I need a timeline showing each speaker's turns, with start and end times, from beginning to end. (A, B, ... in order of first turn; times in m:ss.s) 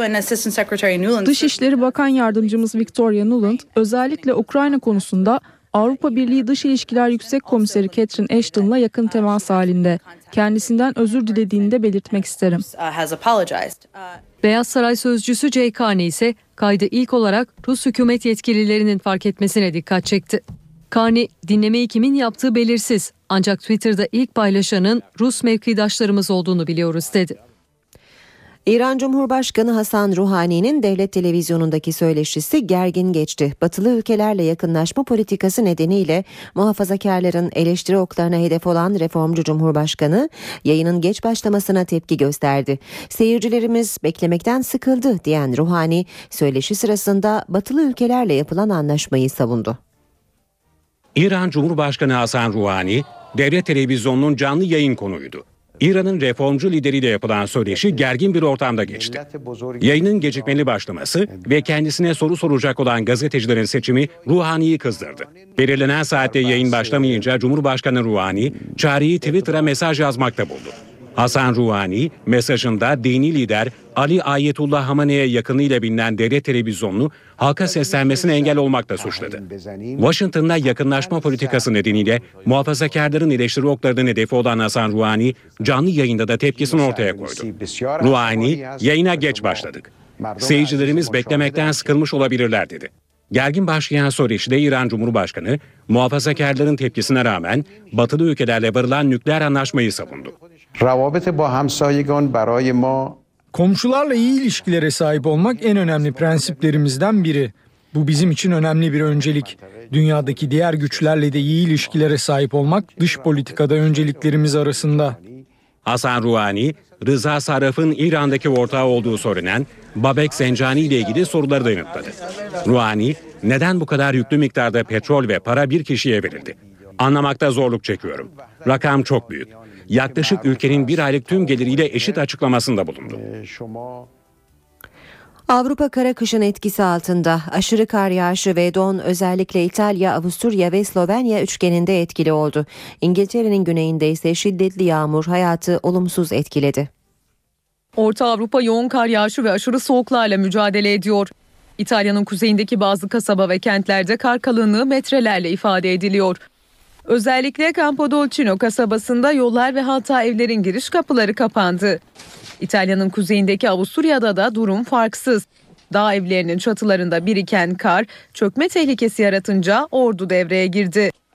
0:01.2-0:12.6 A
0:14.4-0:27.4 B
0:28.6-0:49.8 C
0:51.2-0:59.2 D
0:59.8-1:19.4 D
1:20.0-1:40.3 D
1:43.5-1:55.2 E
1:55.8-2:13.2 D
2:15.5-2:26.9 C
2:28.0-2:36.4 F
2:37.1-2:42.0 F
2:42.6-2:51.1 F